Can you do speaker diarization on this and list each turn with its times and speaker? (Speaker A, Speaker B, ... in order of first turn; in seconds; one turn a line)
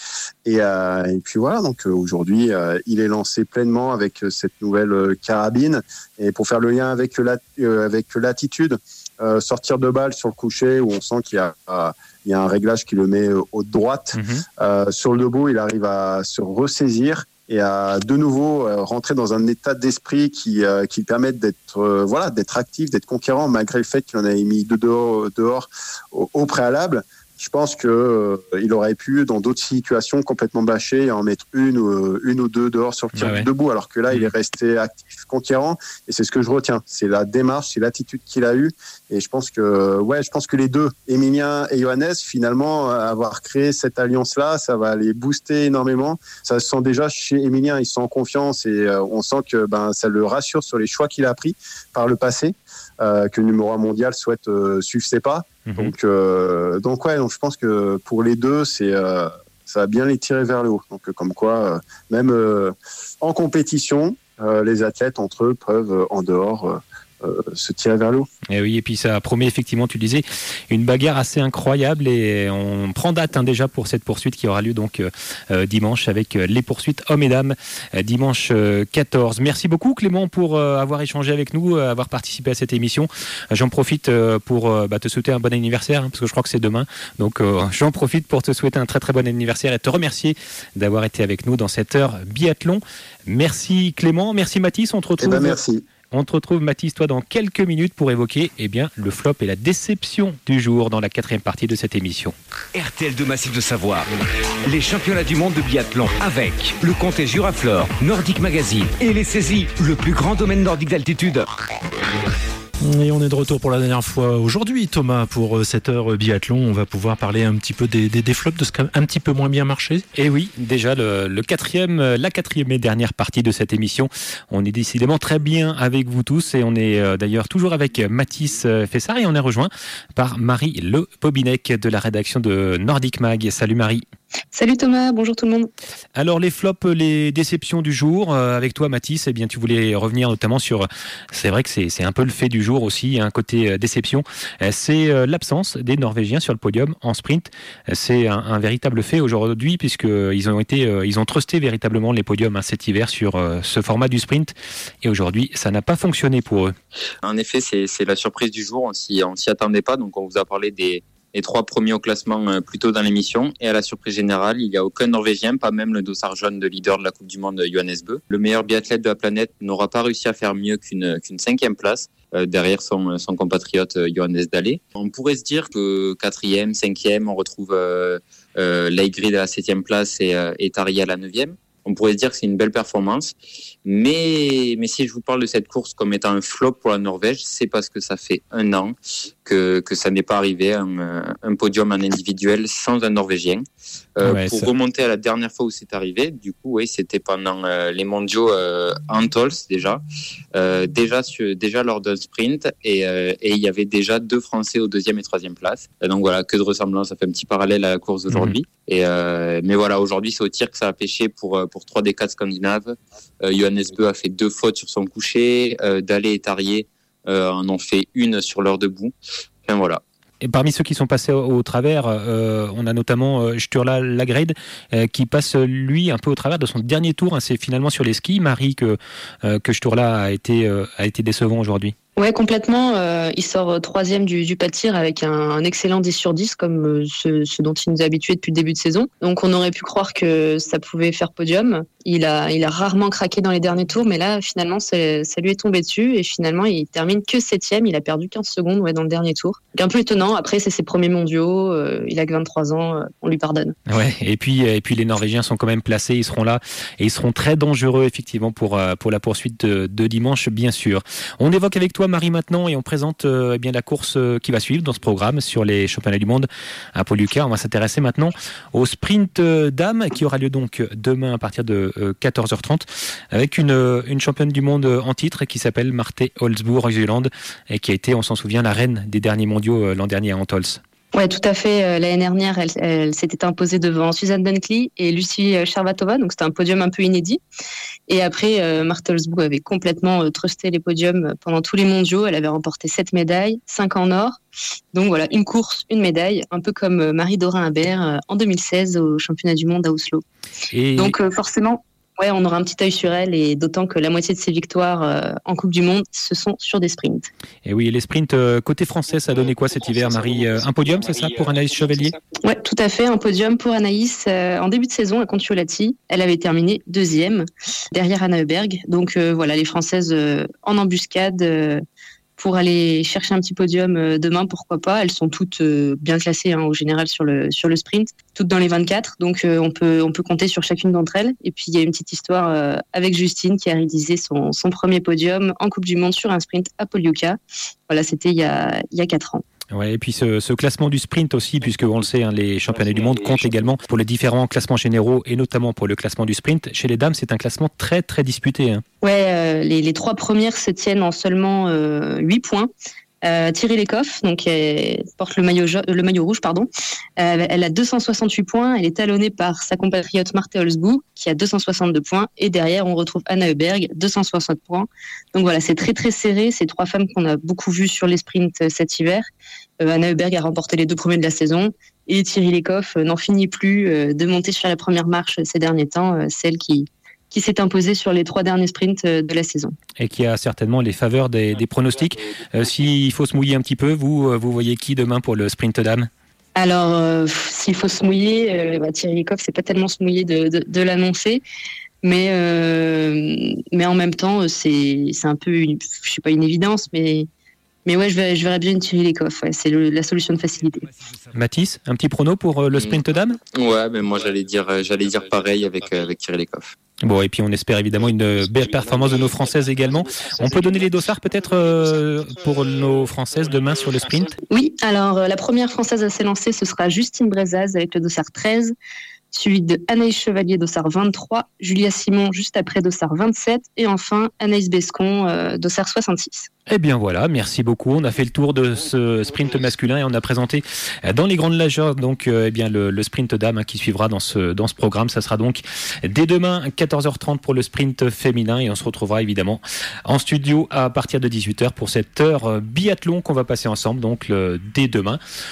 Speaker A: 0.4-68.3
Speaker B: 14.1-14.4
Speaker B: 33.1-33.5
Speaker B: 55.6-55.9
Speaker B: 68.5-95.6
Speaker A: 95.2-95.8
Speaker B: 96.1-102.3
Speaker C: 102.7-104.1
Speaker C: 104.7-111.5
Speaker D: 112.8-120.0
Speaker B: 120.1-134.0
Speaker E: 134.5-135.7
Speaker B: 136.2-156.7
Speaker F: 157.2-183.3
Speaker F: 183.8-193.6
Speaker F: 194.2-200.0
Speaker B: 194.2-194.7
Speaker F: 200.5-219.1
Speaker B: 208.3-208.6
Speaker F: 219.7-220.0
Speaker B: 220.4-231.9
Speaker E: 232.2-253.8
Speaker B: 253.9-280.8
Speaker E: 281.1-287.4
Speaker E: 288.1-294.4
Speaker E: 294.9-300.2
Speaker B: 300.7-301.1
Speaker E: 301.0-307.3
Speaker B: 307.6-312.2
Speaker E: 312.4-321.8
Speaker E: 322.4-339.4
Speaker B: 339.7-348.8
Speaker E: 349.0-352.7
Speaker E: 353.2-369.3
Speaker E: 369.8-379.8
Speaker B: 380.0-386.1
Speaker E: 386.6-391.4
Speaker E: 392.0-397.3
Speaker E: 397.9-400.8
Speaker C: 400.6-401.4
Speaker B: 401.3-403.4
Speaker F: 402.7-403.0
Speaker F: 403.5-406.7
Speaker B: 407.0-414.4
Speaker E: 414.5-418.7
Speaker E: 419.3-426.5
Speaker B: 426.7-445.2